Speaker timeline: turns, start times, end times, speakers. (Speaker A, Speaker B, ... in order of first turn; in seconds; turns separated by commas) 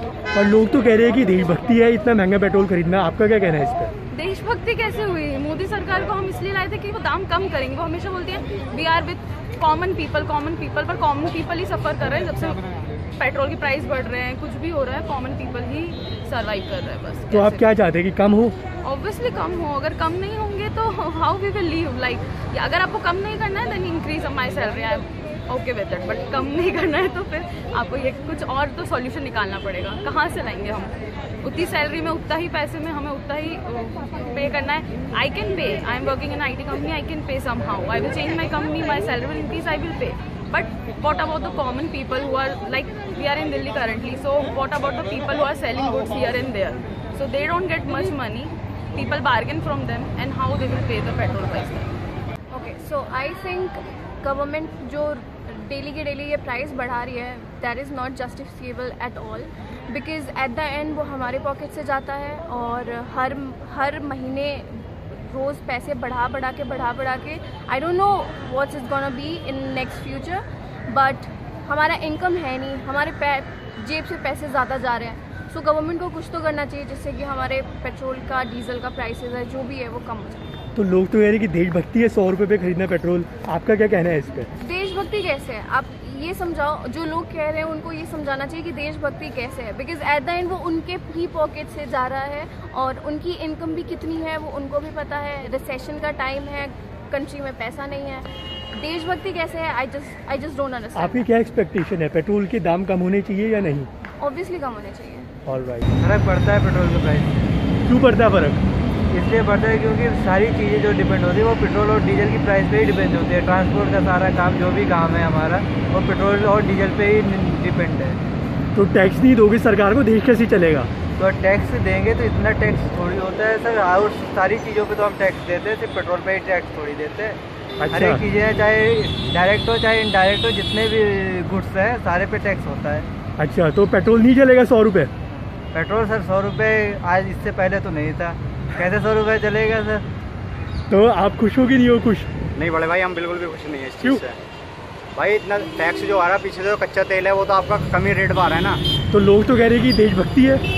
Speaker A: 0.3-3.9, Speaker B: 4.1-17.6, Speaker A: 17.3-18.6, Speaker B: 18.8-51.9, Speaker C: 52.5-80.5, Speaker A: 80.8-84.5, Speaker C: 84.6-101.3, Speaker A: 101.0-103.9, Speaker C: 104.2-105.3, Speaker A: 105.5-105.9, Speaker D: 106.0-107.4, Speaker A: 107.9-108.6, Speaker D: 109.1-118.2, Speaker A: 118.8-120.9, Speaker D: 121.2-133.1, Speaker A: 127.8-128.2, Speaker A: 133.4-135.1, Speaker D: 135.3-140.0, Speaker A: 140.9-142.3, Speaker E: 142.6-144.4, Speaker E: 145.2-148.8, Speaker A: 149.1-150.6